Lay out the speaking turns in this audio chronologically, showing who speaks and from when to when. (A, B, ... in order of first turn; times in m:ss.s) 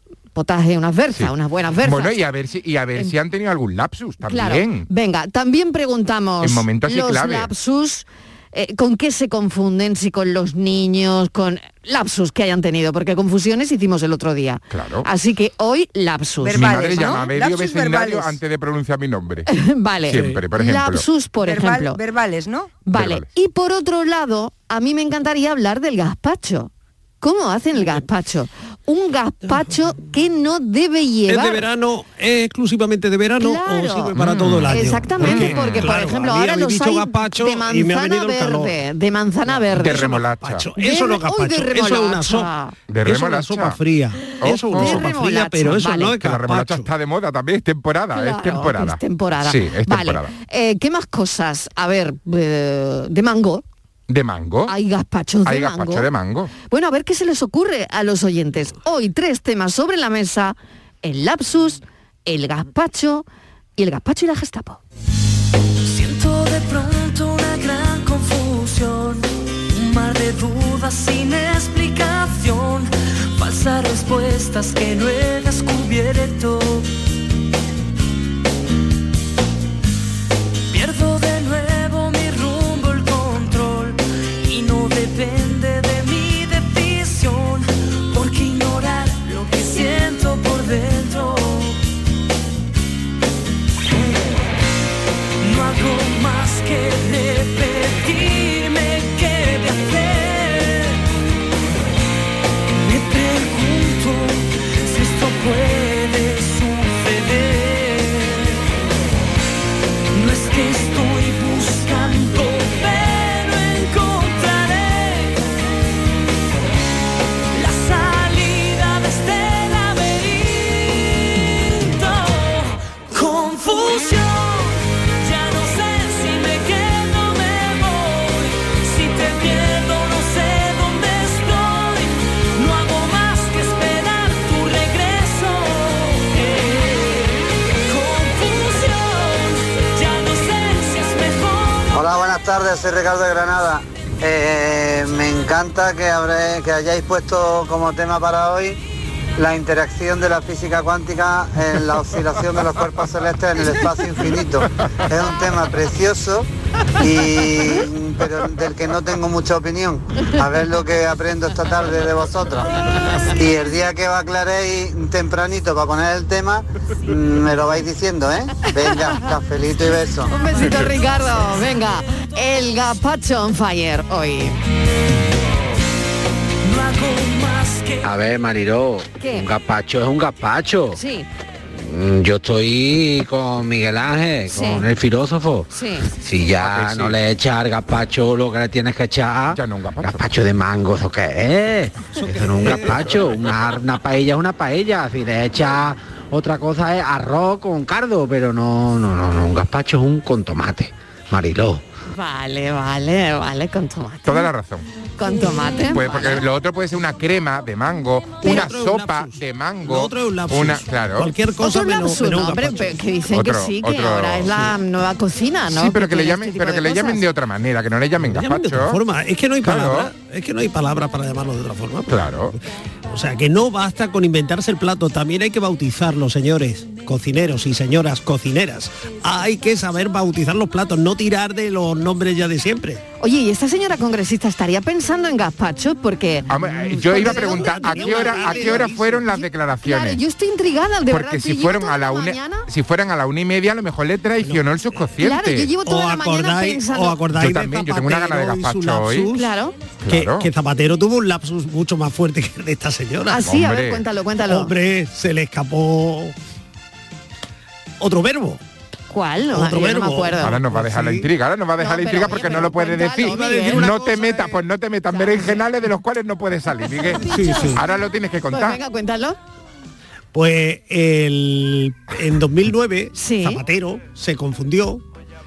0:00.3-0:02.2 A
0:01.2-0:04.9 B
0:04.3-0:17.2 A
0:06.4-0:07.5 B
0:14.7-0:15.1 B
0:16.4-0:18.4 C
0:16.6-0:19.5 B
0:19.5-0:22.0 A
0:20.1-0:21.0 B
0:21.4-0:22.8 C
0:22.9-0:31.6 A
0:22.9-0:23.3 B
0:31.3-0:38.8 D
0:33.4-0:34.2 A
0:34.2-0:36.0 B
0:34.7-0:40.1 A
0:39.5-0:42.5 D
0:39.7-0:40.7 B
0:40.8-0:42.8 A
0:42.9-0:43.8 B
0:43.0-0:46.9 D
0:44.4-0:45.1 B
0:44.7-0:46.2 A
0:46.2-0:50.3 B
0:48.1-0:53.6 A
0:54.1-0:54.7 B
0:54.7-0:56.1 A
0:55.5-0:56.5 B
0:56.6-1:03.2 A
1:03.8-1:04.8 A
1:05.8-1:16.9 E
1:20.7-1:31.8 E
1:35.4-1:41.0 E
1:42.8-1:48.6 E
1:50.1-1:55.4 E
1:57.5-2:21.9 E
2:21.9-2:28.8 F
2:29.4-2:36.5 F
2:37.0-2:42.7 F
2:43.2-2:50.3 F
2:50.3-2:54.6 A
2:56.6-2:58.1 E
2:58.0-3:01.0 G
2:59.2-2:59.5 A
3:01.0-3:01.3 A
3:01.7-3:21.8 G
3:04.5-3:04.9 A
3:05.7-3:06.1 A
3:06.6-3:07.2 B
3:09.5-3:10.3 B
3:12.1-3:13.2 D
3:22.1-3:24.5 A
3:24.2-3:24.9 B
3:25.2-3:26.4 A
3:25.8-3:31.3 B
3:28.4-3:33.0 D
3:31.6-3:37.2 A
3:33.3-3:34.7 B
3:35.7-3:39.0 B
3:38.2-3:42.6 D
3:39.6-3:40.1 B
3:42.1-3:42.6 B
3:43.1-3:53.0 D
3:53.2-3:56.5 A
3:56.5-4:00.2 B
3:56.6-3:59.3 D
3:57.2-4:02.7 A
4:01.1-4:05.7 B
4:04.4-4:05.1 D
4:05.2-4:07.2 A
4:05.8-4:09.5 D
4:07.3-4:09.3 B
4:09.3-4:09.8 A
4:10.0-4:10.5 B
4:10.1-4:13.4 D
4:13.3-4:14.7 A
4:13.4-4:14.0 B
4:14.4-4:16.3 D
4:18.0-4:18.6 D
4:19.1-4:20.6 A
4:19.5-4:21.3 D
4:20.4-4:28.8 B
4:21.8-4:23.8 A
4:23.2-4:24.6 D
4:25.1-4:25.7 A
4:26.9-4:27.7 A
4:27.2-4:27.8 D
4:28.5-4:29.4 A
4:30.3-4:35.0 D
4:33.2-4:33.6 A